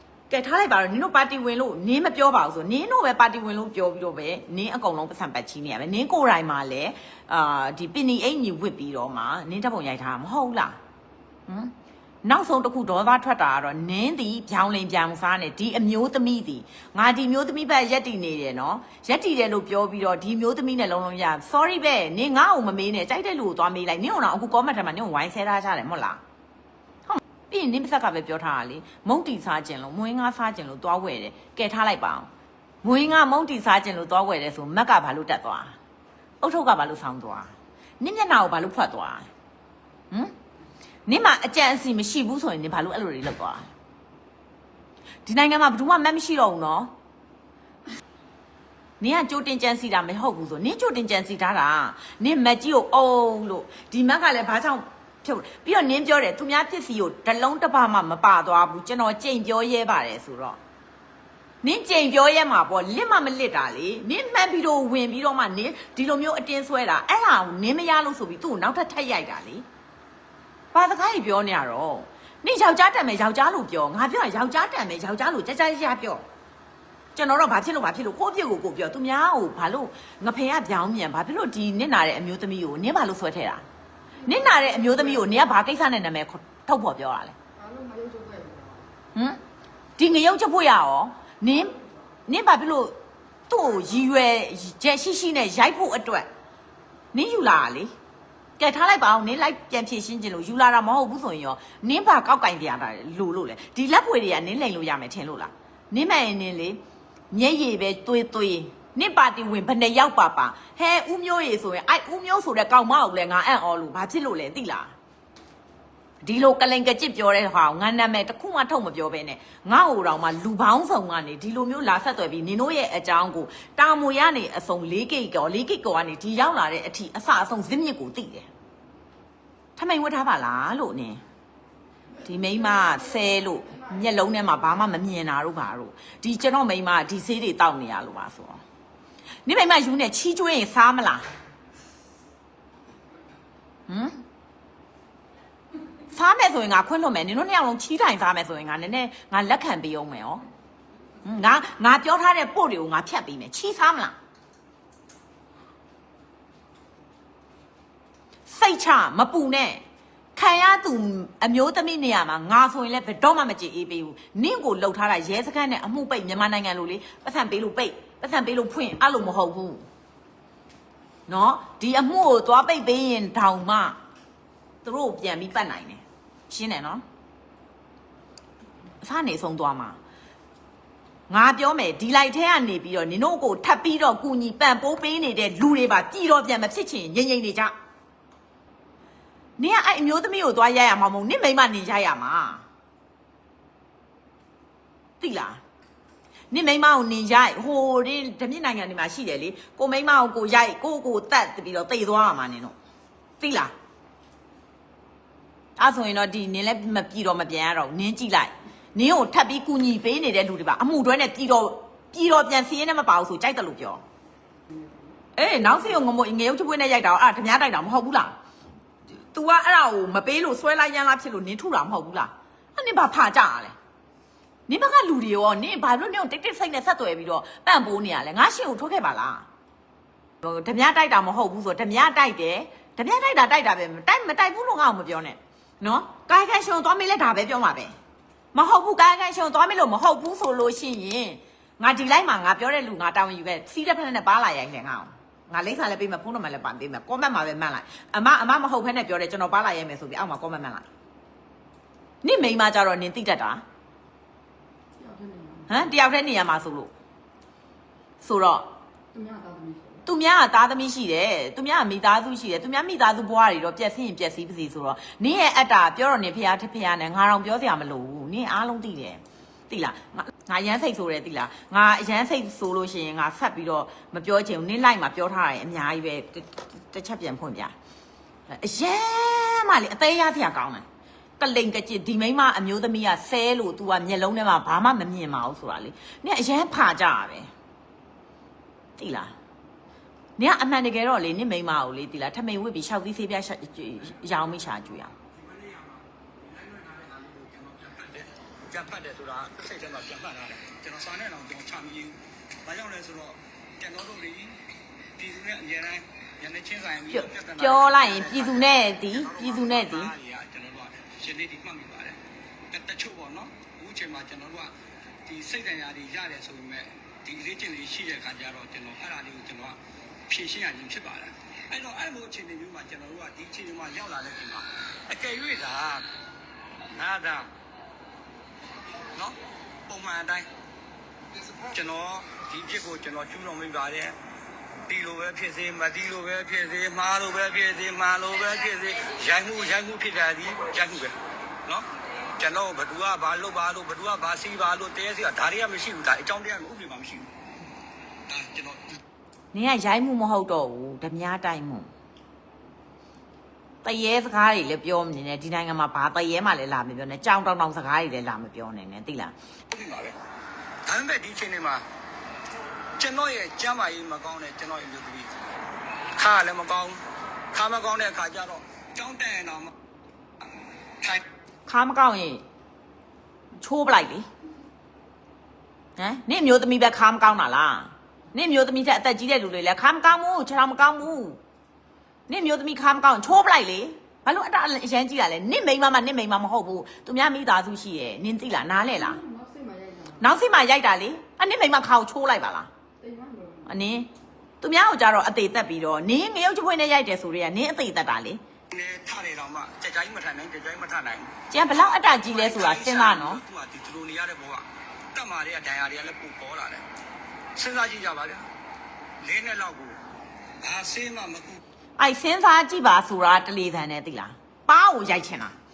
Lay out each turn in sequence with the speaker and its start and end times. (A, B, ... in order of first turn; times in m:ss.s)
0:00.3-0:10.8 A
0:11.5-0:11.7 A
0:12.2-0:26.2 A
0:27.1-0:32.3 A
0:32.8-0:35.8 A
0:36.4-0:39.3 A
0:41.1-0:43.7 A
0:45.2-0:46.9 A
0:49.0-1:00.6 A
1:01.6-1:09.6 A
1:10.7-1:16.2 A
1:17.2-1:23.6 A
1:24.2-1:25.6 B
1:24.2-1:27.3 A
1:27.6-1:28.9 B
1:30.0-1:31.7 A
1:32.3-1:36.3 A
1:37.1-1:37.9 A
1:38.6-1:46.8 A
1:47.3-1:54.9 A
1:56.2-2:08.5 A
2:09.8-2:11.2 A
2:12.2-2:18.6 A
2:19.4-2:21.2 A
2:23.9-2:24.2 A
2:26.1-2:30.4 A
2:31.2-2:34.2 A
2:38.5-2:39.8 A
2:40.4-2:49.8 A
2:51.3-2:54.0 A
2:54.8-2:57.0 A
2:59.0-3:00.0 A
3:01.3-3:07.7 A
3:09.6-3:12.6 A
3:15.2-3:15.6 A
3:16.5-3:22.8 A
3:23.4-3:23.7 A
3:25.8-3:34.0 A
3:35.4-3:38.4 A
3:39.3-3:43.7 A
3:44.7-3:49.5 A
3:50.4-3:57.9 A
3:58.5-4:10.8 A
4:12.2-4:13.6 A
4:15.0-4:15.9 B
4:15.7-4:16.9 A
4:18.2-4:18.7 A
4:19.1-4:20.0 B
4:20.0-4:37.7 A
4:38.5-4:40.8 A
4:41.4-4:47.5 A
4:49.0-4:49.3 A
4:50.4-4:55.1 A
4:55.4-5:04.6 C
5:05.2-5:12.2 C
5:07.1-5:10.1 A
5:12.7-5:14.7 C
5:15.2-5:26.0 C
5:26.9-5:27.5 C
5:29.9-5:30.5 C
5:31.7-5:34.2 C
5:34.9-5:41.9 C
5:42.4-5:47.3 C
5:48.3-5:48.9 C
5:49.5-5:51.9 A
5:53.8-5:59.3 A
5:59.7-6:00.2 C
6:00.8-6:01.8 C
6:03.0-6:05.3 C
6:06.2-6:07.0 C
6:07.5-6:09.7 C
6:11.6-6:12.4 A
6:13.6-6:14.3 A
6:16.0-6:21.4 A
6:22.3-6:29.2 A
6:28.9-6:30.3 B
6:30.2-6:32.7 A
6:33.0-6:33.8 B
6:33.7-6:34.1 A
6:34.6-6:38.4 A
6:38.7-6:46.8 C
6:41.5-6:43.4 A
6:47.6-6:48.5 C
6:49.2-6:50.0 C
6:50.6-6:51.6 C
6:52.0-6:55.5 A